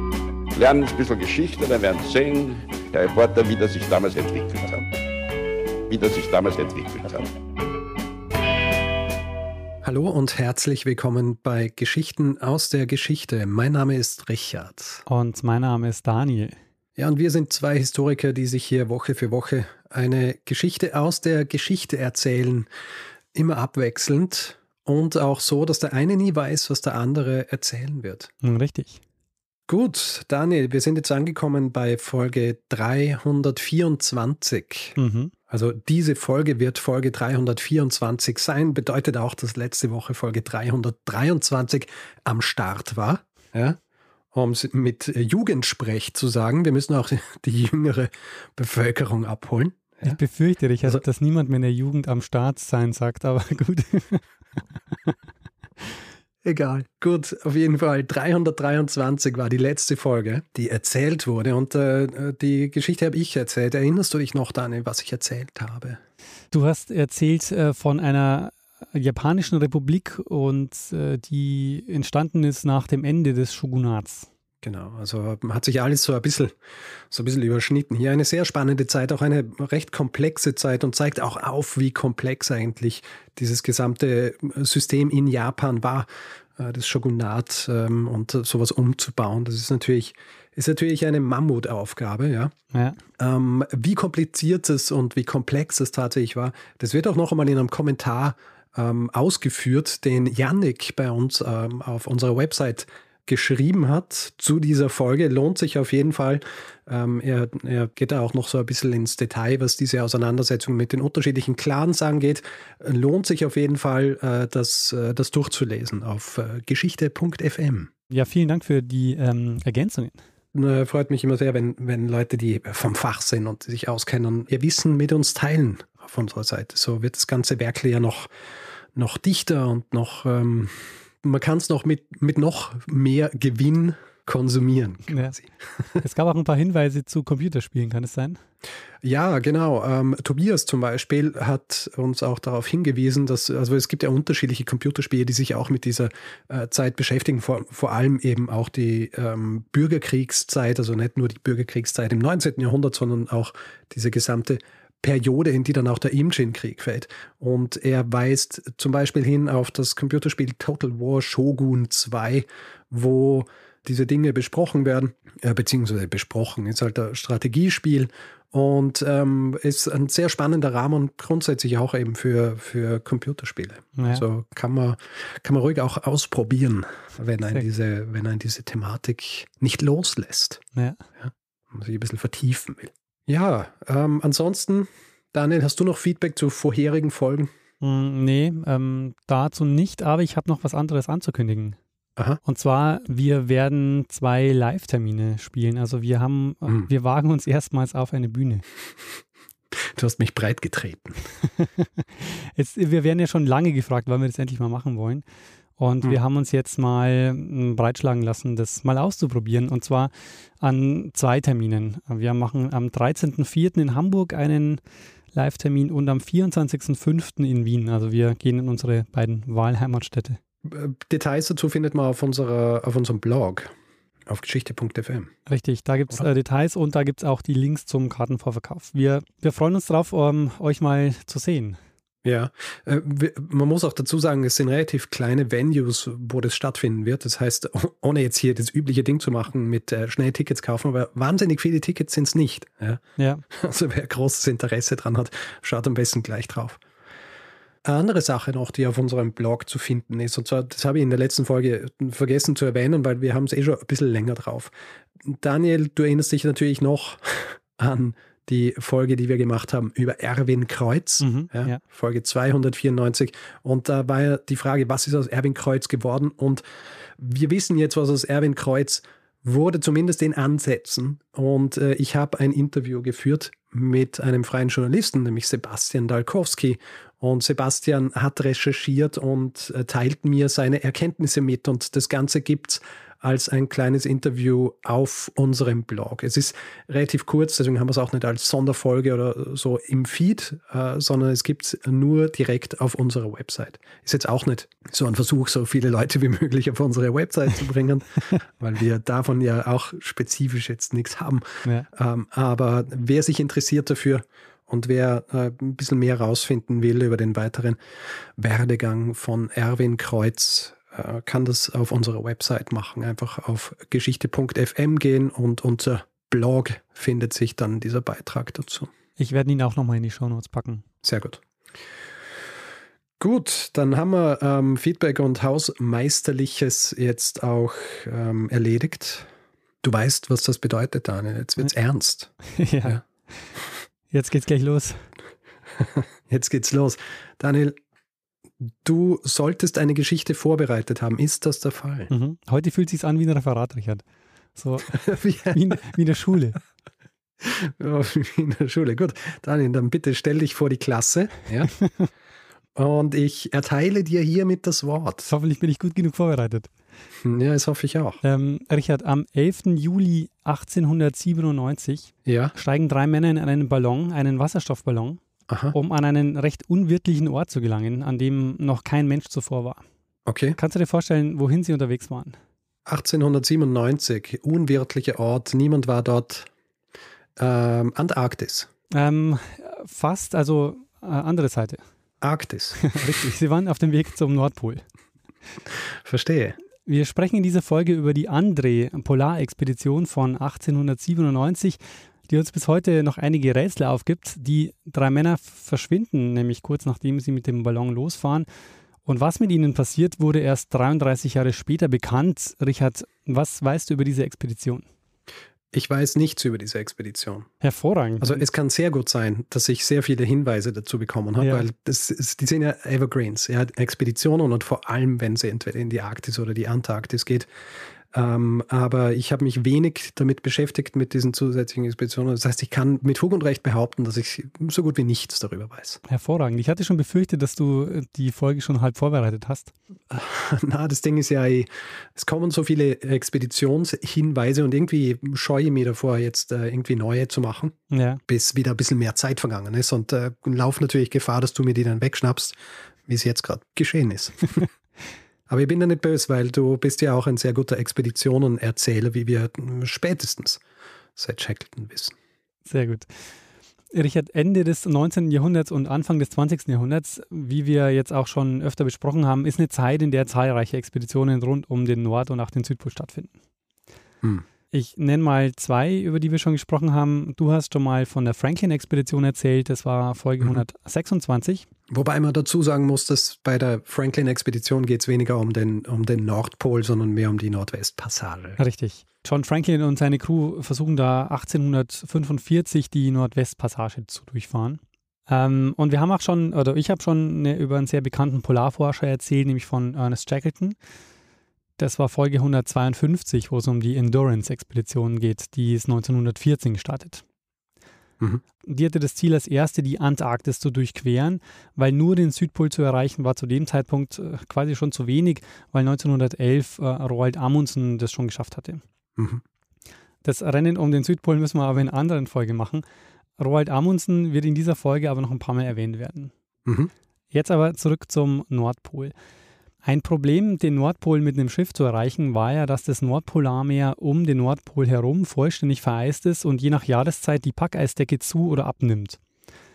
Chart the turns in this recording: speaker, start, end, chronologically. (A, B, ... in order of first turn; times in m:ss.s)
0:00.5-0:04.8 A
0:05.9-0:07.3 A
0:09.8-0:15.0 B
0:15.1-0:16.6 C
0:17.0-0:22.7 B
0:23.3-0:28.3 B
0:28.4-0:29.0 C
0:29.7-0:35.0 B
0:35.0-0:35.3 C
0:35.5-0:43.8 B
0:44.3-0:50.2 B
0:50.0-0:54.2 C
0:56.4-1:06.0 B
1:06.5-1:14.3 C
1:14.6-1:16.5 B
1:17.1-1:32.5 B
1:32.7-1:33.0 C
1:33.2-1:57.9 B
1:58.1-2:00.2 C
2:00.5-2:08.3 B
2:08.9-2:16.0 B
2:15.1-2:15.4 C
2:16.0-2:18.4 C
2:19.0-3:00.6 B
2:54.0-2:54.2 C
3:00.7-3:01.0 C
3:01.2-3:07.5 B
3:07.8-3:11.8 C
3:12.4-3:18.6 C
3:19.7-3:21.3 B
3:21.4-3:25.2 C
3:25.8-3:34.8 C
3:35.3-3:40.4 C
3:40.6-3:43.7 B
3:44.3-3:45.3 B
3:45.4-3:51.8 C
3:52.2-4:06.8 B
4:03.2-4:03.4 C
4:07.8-4:14.7 B
4:15.2-4:26.6 B
4:21.2-4:21.8 C
4:27.2-5:18.9 B
5:19.2-5:20.8 C
5:21.0-5:21.4 B
5:23.2-5:29.3 B
5:29.8-5:32.3 B
5:32.5-5:33.5 C
5:34.1-5:35.0 C
5:35.8-5:37.8 B
5:38.8-5:42.1 B
5:42.1-5:44.0 C
5:44.6-5:46.6 C
5:44.9-5:45.6 B
5:47.4-5:51.7 B
5:51.8-5:52.1 C
5:52.8-5:55.3 B
5:55.3-5:56.7 C
5:57.2-5:58.2 B
5:58.2-6:05.2 C
6:02.2-6:02.5 B
6:05.5-6:05.7 B
6:05.7-6:09.8 C
6:10.3-6:10.6 B
6:10.6-6:12.4 C
6:12.8-6:16.5 B
6:17.4-6:18.7 B
6:18.9-6:21.8 C
6:22.2-6:23.2 B
6:22.8-6:24.8 C
6:25.9-6:26.6 B
6:26.8-6:38.5 C
6:39.0-6:44.8 C
6:45.7-6:47.5 B
6:47.6-6:48.4 C
6:48.2-6:57.5 B
6:51.4-6:51.6 C
6:58.1-7:06.0 B
7:06.1-7:09.7 C
7:10.1-7:17.8 B
7:17.9-7:18.2 C
7:18.3-7:24.6 B
7:25.5-7:30.6 B
7:31.2-7:32.1 B
7:32.6-7:33.1 C
7:33.9-7:43.3 C
7:44.7-7:51.7 C
7:51.9-7:58.6 B
7:58.6-8:10.8 C
8:11.8-8:17.2 C
8:18.6-8:28.8 C
8:29.2-8:29.4 B
8:30.2-8:32.8 C
8:33.4-8:36.3 C
8:36.6-8:36.9 B
8:37.3-8:39.1 C
8:39.8-8:49.2 C